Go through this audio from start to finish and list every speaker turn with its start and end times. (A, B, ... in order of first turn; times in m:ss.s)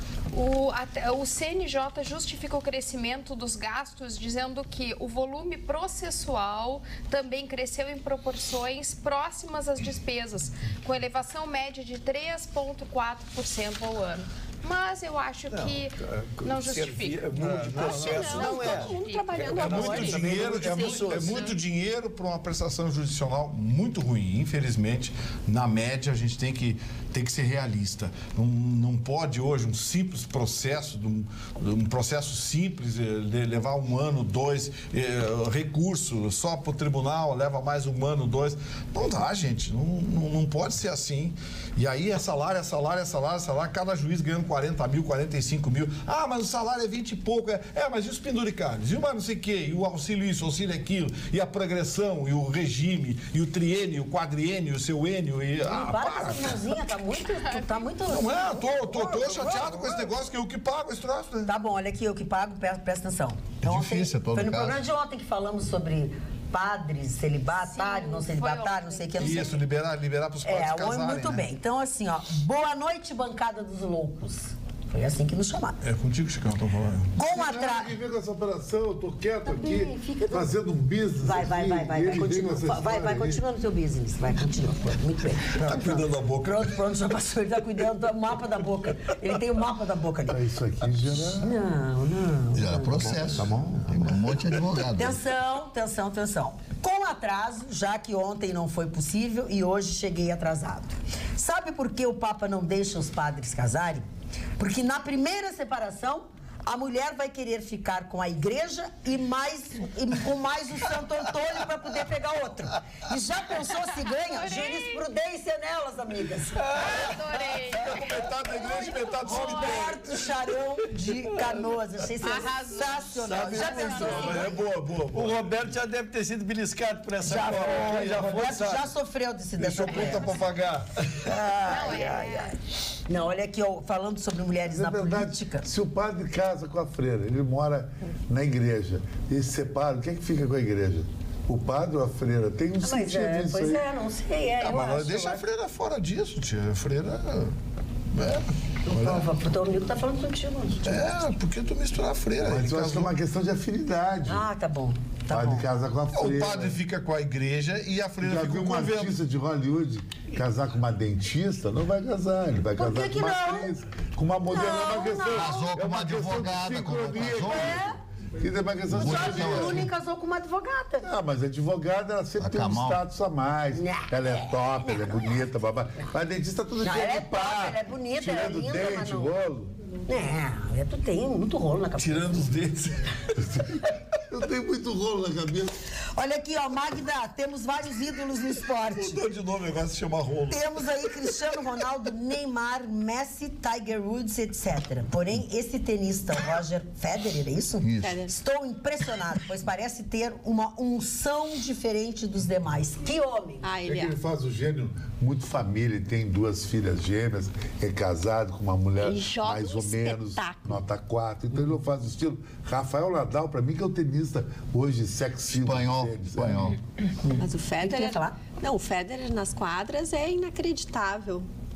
0:00.3-0:19.4 A
0:15.5-0:21.5 B
0:17.4-0:19.0 C
0:17.8-0:20.3 D
0:19.5-0:56.7 C
0:20.3-0:21.1 E
0:20.7-0:21.5 A
0:55.6-1:00.1 E
0:57.3-0:57.9 A
0:58.1-1:01.5 C
1:01.5-1:09.6 E
1:03.6-1:04.8 F
1:07.6-1:09.6 A
1:09.2-1:11.5 C
1:10.4-1:15.8 E
1:15.8-1:17.1 C
1:17.2-1:17.9 E
1:17.2-1:23.4 G
1:19.4-1:20.6 E
1:21.2-1:30.4 E
1:25.5-1:26.8 C
1:30.3-1:31.6 G
1:31.4-1:33.4 E
1:32.5-1:35.2 F
1:33.1-1:34.0 G
1:34.7-1:44.0 E
1:44.6-1:56.7 E
1:54.3-1:55.0 A
1:56.7-1:57.0 B
1:56.8-1:59.9 A
1:57.7-2:00.0 C
1:59.2-2:04.6 E
2:02.2-2:04.5 A
2:03.2-2:04.3 B
2:04.0-2:05.7 C
2:05.1-2:08.9 B
2:07.2-2:10.4 E
2:07.2-2:08.8 C
2:09.6-2:11.3 C
2:09.9-2:10.2 A
2:11.2-2:15.7 E
2:11.5-2:12.6 A
2:14.7-2:23.8 G
2:22.8-2:25.4 E
2:24.6-2:27.6 C
2:28.1-2:29.3 C
2:28.8-2:31.1 E
2:30.8-2:33.1 C
2:32.4-2:34.5 G
2:34.2-2:35.7 E
2:35.3-2:36.8 G
2:36.1-2:39.2 C
2:38.2-2:49.9 G
2:42.8-2:43.7 E
2:44.5-2:45.7 E
2:45.3-2:47.8 F
2:47.4-2:48.0 E
2:48.9-2:49.9 F
2:48.9-2:51.1 E
2:51.0-2:59.7 G
2:52.4-2:53.0 F
2:53.7-2:55.2 E
2:56.8-2:59.4 E
3:00.1-3:02.6 E
3:02.0-3:03.4 C
3:03.4-3:03.8 G
3:04.3-3:05.7 G
3:06.2-3:09.2 E
3:08.9-3:10.7 C
3:10.5-3:23.7 E
3:17.8-3:18.2 F
3:18.0-3:18.4 D
3:23.6-3:24.2 D
3:23.9-3:36.8 G
3:29.0-3:30.8 D
3:35.5-3:36.8 F
3:37.2-3:38.4 E
3:37.4-3:41.5 D